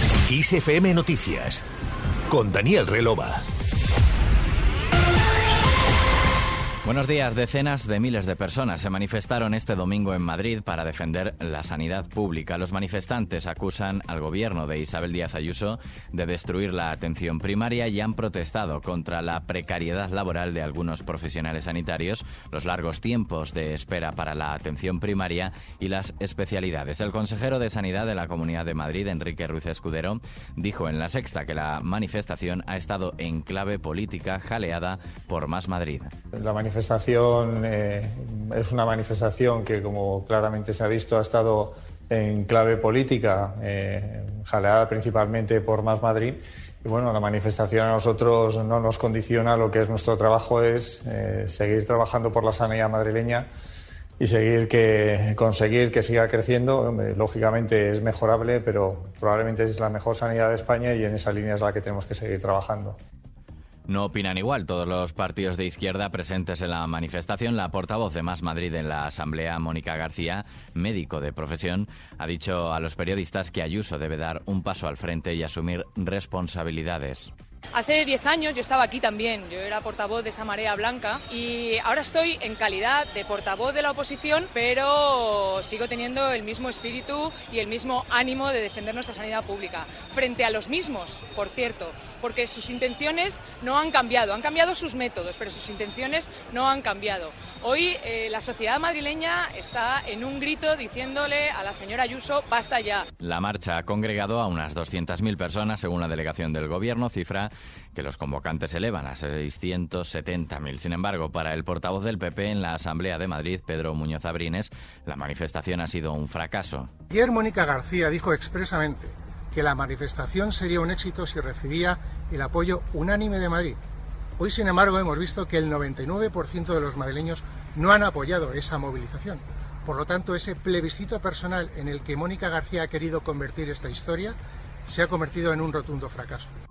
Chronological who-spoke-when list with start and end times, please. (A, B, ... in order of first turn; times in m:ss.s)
0:00.3-0:01.6 A
0:02.3-0:03.4 A
0:06.8-0:36.1 B
0:36.4-0:53.5 C
0:54.2-1:03.0 C
1:03.9-1:17.3 B
1:17.8-1:43.1 D
1:43.2-1:56.9 B
1:57.1-2:03.8 E
2:04.4-2:14.4 E
2:14.9-2:16.5 E